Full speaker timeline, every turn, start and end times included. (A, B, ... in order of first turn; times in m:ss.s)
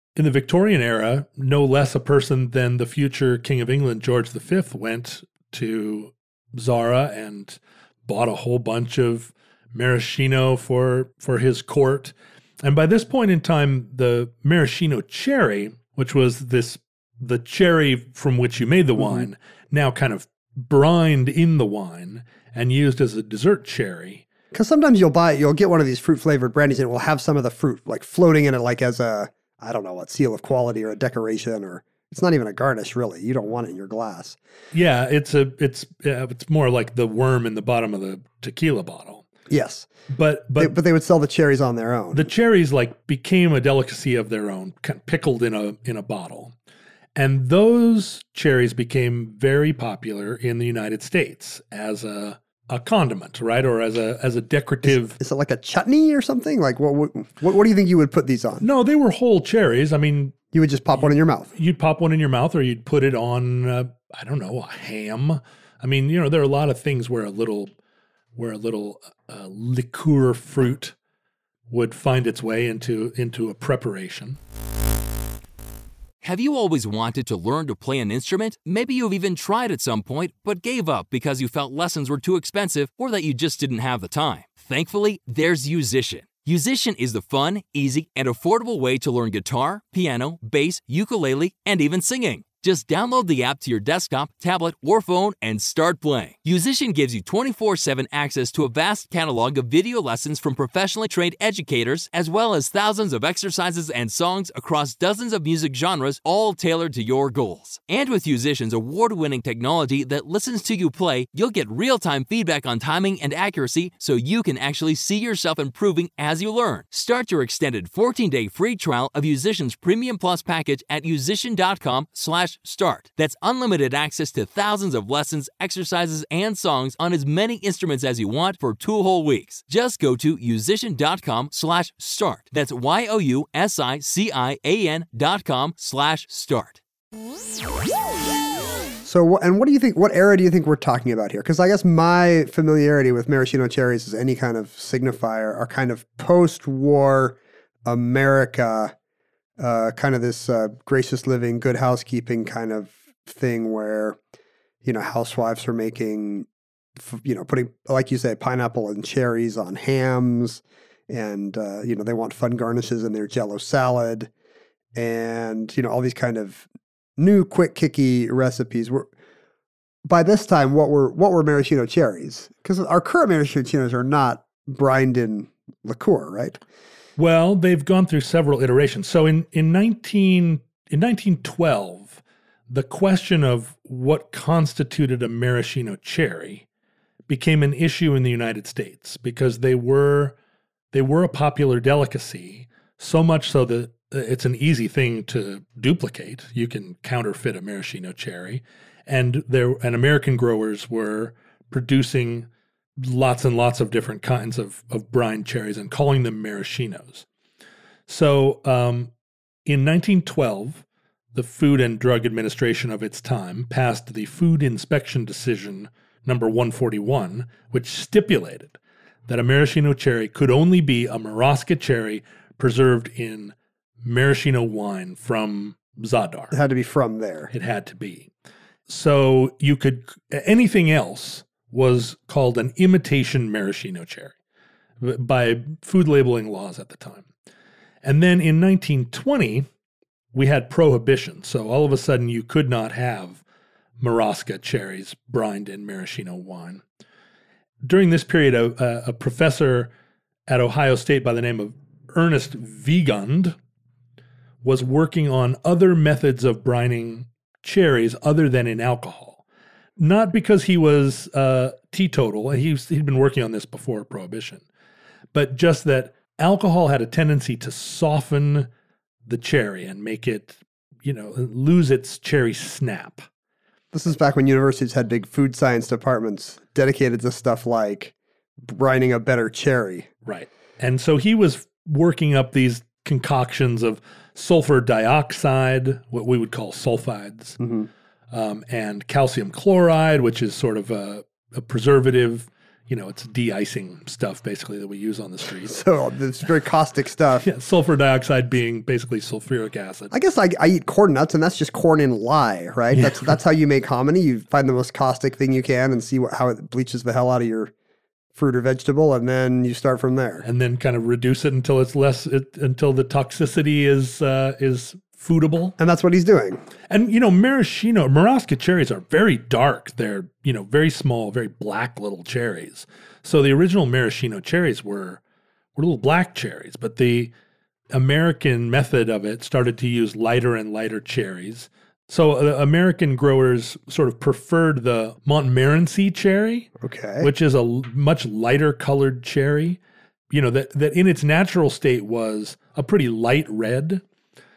0:00.2-0:24.2 A
0:19.0-0:19.2 B
0:24.5-0:34.4 B
0:34.7-0:39.2 A
0:39.5-0:39.9 B
0:40.1-0:40.7 A
0:40.6-0:42.3 B
0:42.1-0:46.5 A
0:47.2-0:55.2 A
0:54.8-0:58.7 B
0:58.6-1:00.4 A
1:00.5-1:01.5 B
1:01.0-1:07.7 A
1:08.4-1:10.9 A
1:11.7-1:14.4 A
1:16.2-2:16.8 C
2:19.0-2:28.9 B
2:29.6-2:34.2 B
2:34.8-2:44.3 B
2:44.9-2:49.1 B
2:50.0-2:56.6 B
2:57.2-3:06.6 A
3:07.3-3:10.3 A
3:10.9-3:22.5 A
3:23.0-3:27.2 A
3:28.1-3:29.1 A
3:29.6-3:46.5 A
3:46.5-3:47.5 B
3:47.5-3:48.3 A
3:48.9-3:54.3 A
3:55.0-3:57.2 A
3:58.0-3:59.7 A
4:00.3-4:03.4 A
4:04.0-4:06.8 A
4:07.8-4:09.9 A
4:10.5-4:13.6 A
4:14.6-4:19.4 A
4:20.0-4:24.6 A
4:25.3-4:28.7 A
4:29.2-4:33.3 A
4:33.9-4:40.1 B
4:40.2-4:47.6 A
4:47.6-4:47.9 B
4:48.3-4:55.8 A
4:55.5-4:57.5 B
4:57.4-5:00.1 A
5:00.1-5:07.7 B
5:02.9-5:03.4 A
5:08.3-5:10.4 B
5:10.4-5:15.7 A
5:15.8-5:16.6 B
5:16.9-5:25.2 A
5:25.8-5:27.3 A
5:27.9-5:36.7 A
5:36.8-5:37.3 B
5:37.2-5:39.8 A
5:40.3-5:44.0 A